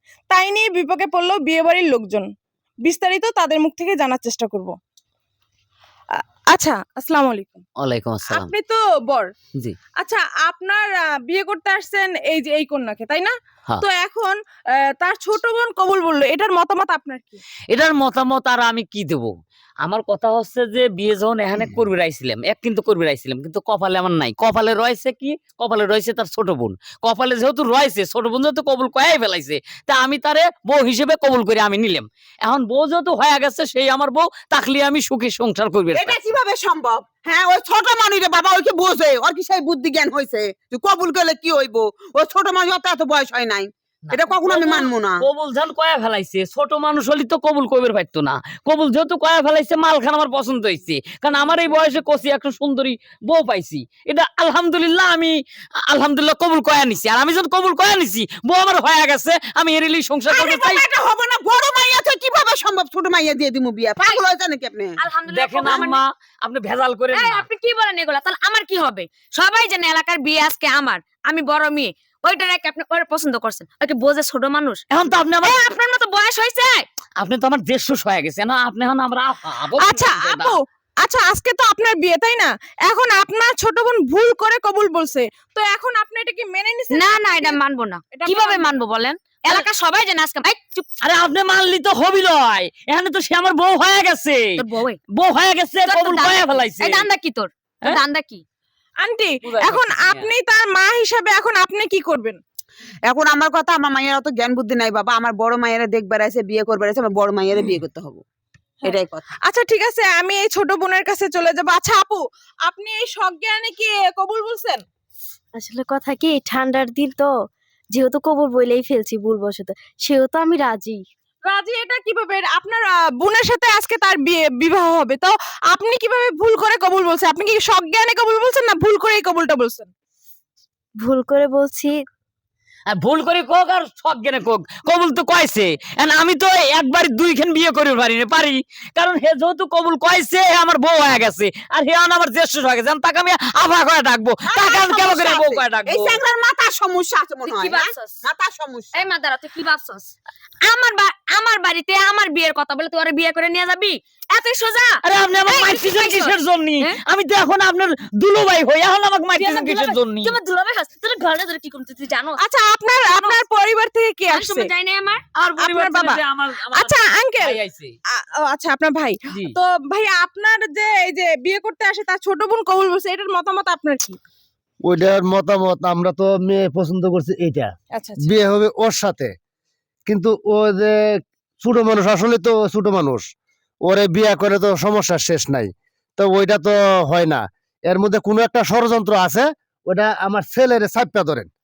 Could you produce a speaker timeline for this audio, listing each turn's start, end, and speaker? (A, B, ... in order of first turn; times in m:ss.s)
0:00.3-0:02.3 A
0:02.8-0:04.8 A
0:06.1-0:07.6 A
0:07.8-0:08.5 B
0:08.3-0:09.3 A
0:10.0-0:17.4 A
0:17.7-0:19.3 B
0:19.8-0:36.2 B
0:35.9-0:45.3 C
0:44.1-0:55.4 B
0:55.9-1:00.8 B
1:00.3-1:05.0 C
1:05.0-1:06.0 D
1:05.3-1:07.5 B
1:07.1-1:14.8 D
1:14.9-1:15.6 B
1:15.4-1:16.9 D
1:17.2-1:20.6 B
1:19.8-1:27.6 A
1:26.9-1:30.9 D
1:28.1-1:28.8 A
1:31.0-1:34.5 B
1:34.6-1:35.0 D
1:35.2-1:37.1 B
1:35.8-1:38.4 D
1:39.0-1:42.4 A
1:39.4-1:40.3 B
1:43.1-1:48.2 C
1:48.8-1:54.8 A
1:48.8-1:49.3 C
1:55.6-2:01.0 E
2:01.4-2:09.9 A
2:11.0-2:12.1 E
2:12.9-2:26.2 B
2:24.5-2:29.0 C
2:27.5-2:28.2 D
2:28.9-2:30.1 D
2:30.7-2:37.0 D
2:35.0-2:40.4 B
2:39.4-2:42.4 D
2:42.4-2:44.7 A
2:43.0-2:43.4 D
2:44.3-2:45.2 D
2:45.4-2:47.9 B
2:45.6-2:46.2 A
2:46.7-2:47.6 A
2:48.1-2:54.2 A
2:54.8-2:57.7 F
2:58.0-2:58.3 A
2:58.2-2:59.3 F
3:00.1-3:03.2 F
3:03.8-3:11.5 F